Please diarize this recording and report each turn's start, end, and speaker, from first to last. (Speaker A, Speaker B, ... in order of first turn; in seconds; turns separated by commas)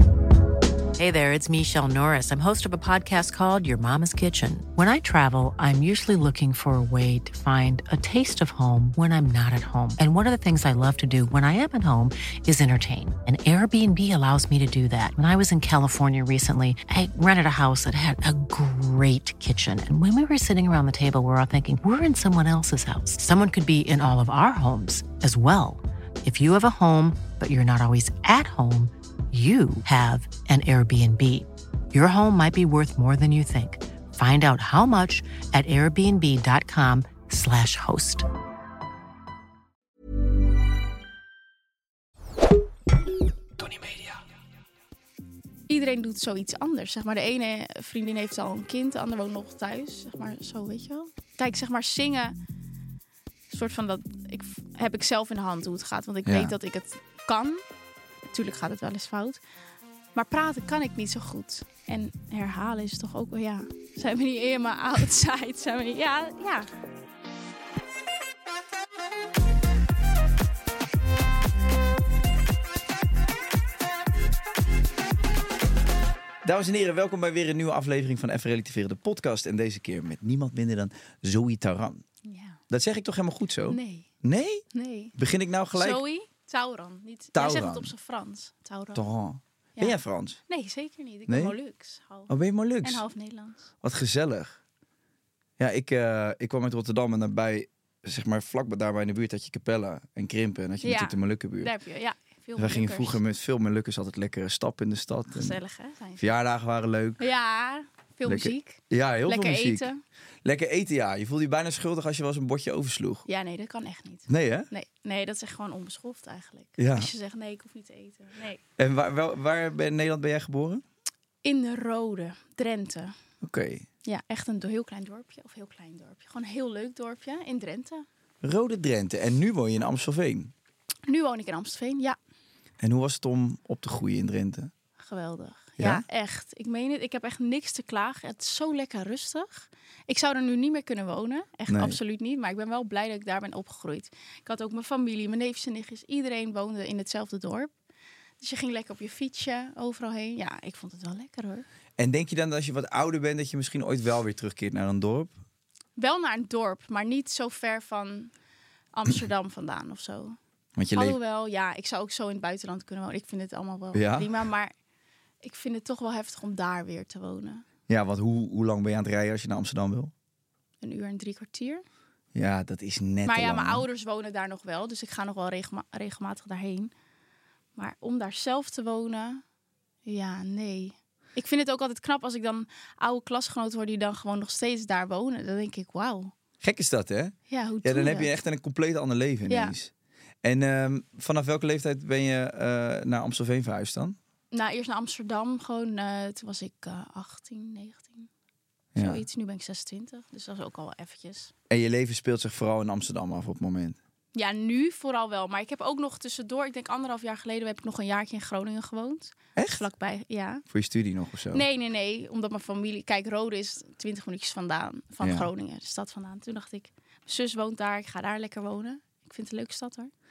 Speaker A: 1.0-38.2, Speaker B: 45.7-52.3, Speaker B: 53.5-57.6, Speaker C: 56.2-56.5, Speaker B: 58.3-59.4, Speaker B: 60.1-66.7, Speaker C: 76.4-82.0, Speaker B: 82.2-82.6, Speaker C: 82.7-86.0, Speaker B: 83.7-84.1, Speaker B: 84.7-85.1, Speaker B: 85.7-89.0, Speaker C: 87.3-87.9, Speaker C: 88.9-90.4, Speaker B: 90.5-92.3, Speaker C: 91.3-91.5, Speaker C: 92.3-93.0, Speaker B: 92.8-93.6, Speaker C: 93.8-94.6, Speaker C: 95.6-101.7, Speaker B: 100.8-103.2, Speaker C: 102.6-105.6, Speaker B: 105.3-106.3, Speaker C: 106.2-107.3, Speaker B: 107.2-110.0, Speaker C: 108.2-109.9, Speaker C: 110.4-113.2, Speaker B: 113.3-118.6, Speaker C: 114.3-114.7, Speaker C: 116.8-117.1, Speaker C: 118.8-120.8, Speaker B: 121.4-123.1, Speaker C: 123.4-123.9, Speaker B: 124.0-128.1, Speaker C: 128.4-130.5, Speaker B: 131.1-132.2, Speaker C: 132.8-134.7, Speaker B: 135.0-147.7, Speaker C: 135.8-136.0, Speaker C: 141.7-142.0, Speaker B: 148.4-151.6, Speaker C: 152.0-155.3, Speaker B: 156.0-158.3, Speaker B: 158.9-160.4, Speaker C: 160.8-161.2, Speaker B: 160.9-164.7, Speaker C: 163.9-164.4, Speaker B: 165.4-167.6, Speaker C: 167.9-170.1, Speaker B: 170.8-171.8, Speaker C: 172.3-173.8, Speaker B: 173.2-176.9, Speaker B: 177.8-179.4, Speaker B: 180.0-186.3, Speaker C: 186.6-189.9, Speaker B: 187.5-188.3, Speaker B: 189.5-189.7, Speaker C: 190.4-194.2, Speaker B: 194.5-198.3, Speaker C: 198.9-199.2, Speaker B: 199.0-201.5, Speaker C: 201.7-204.0, Speaker B: 204.3-210.6, Speaker C: 209.6-209.9, Speaker C: 210.7-211.6, Speaker B: 211.5-220.1, Speaker C: 215.2-215.5